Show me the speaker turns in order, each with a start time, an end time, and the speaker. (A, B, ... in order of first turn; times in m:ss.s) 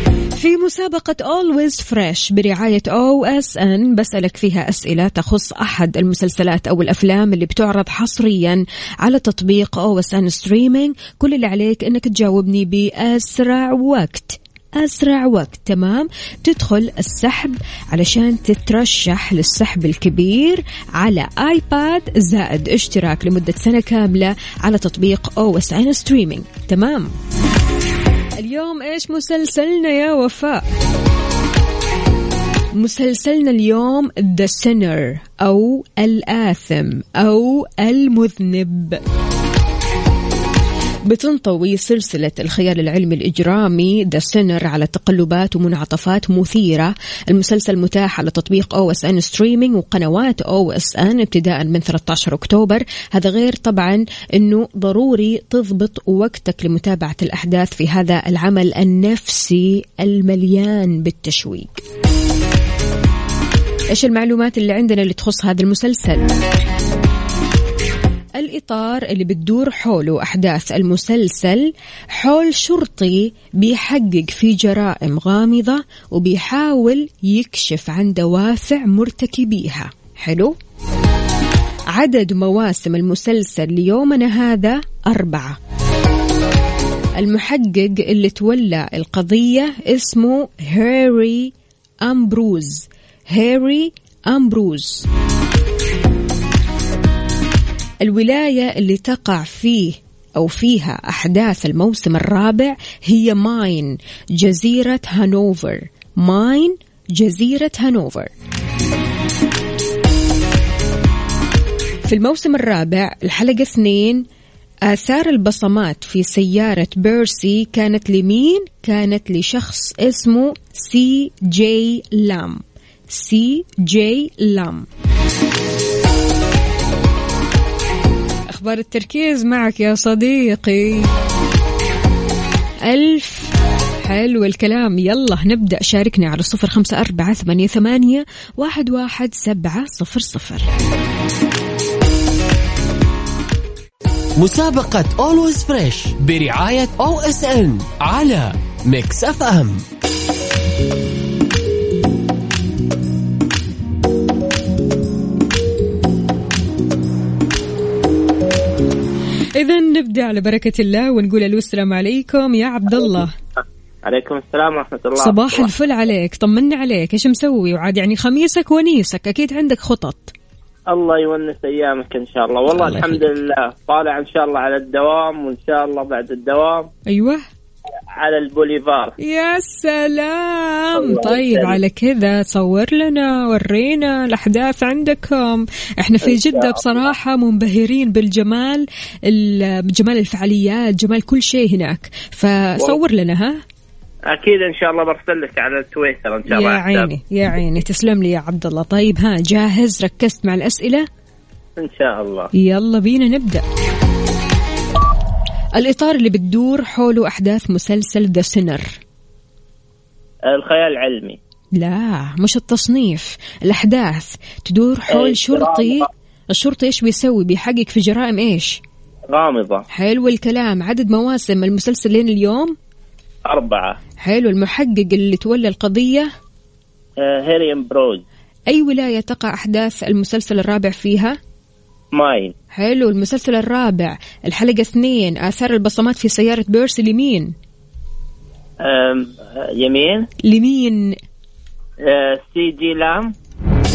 0:00.4-0:27.1 A
0:28.4-0:30.7 A
0:32.8-0:39.0 A
0:41.0-1:01.8 A
1:03.9-1:06.3 A
1:08.4-1:20.6 A
1:21.9-1:25.6 A
1:27.2-1:31.5 A
1:32.0-1:35.1 A
1:38.0-1:48.3 A
1:52.1-1:54.2 A
1:54.9-2:04.9 A
2:08.5-2:11.1 A
2:12.9-2:13.5 A
2:14.0-2:20.7 A
2:24.4-2:29.8 B
2:39.6-2:43.3 A
2:44.1-2:45.7 C
2:45.2-2:50.3 A
2:50.9-2:56.9 C
2:52.7-2:53.2 A
2:57.1-2:57.4 A
2:58.2-2:59.2 C
2:59.2-3:13.6 A
3:00.9-3:01.8 C
3:06.3-3:07.0 C
3:14.3-3:17.1 C
3:16.5-3:21.1 A
3:21.8-3:22.5 C
3:22.6-3:23.6 A
3:25.8-3:29.0 A
3:30.5-3:31.4 C
3:31.8-3:38.8 A
3:35.1-3:36.0 C
3:39.3-3:39.8 C
3:39.9-3:42.8 A
3:43.5-3:44.0 C
3:44.2-3:46.3 A
3:47.2-3:48.2 C
3:48.7-3:51.4 A
3:52.1-3:52.5 C
3:52.8-3:57.5 A
3:58.8-4:00.3 C
4:00.4-4:01.1 A
4:02.0-4:03.3 C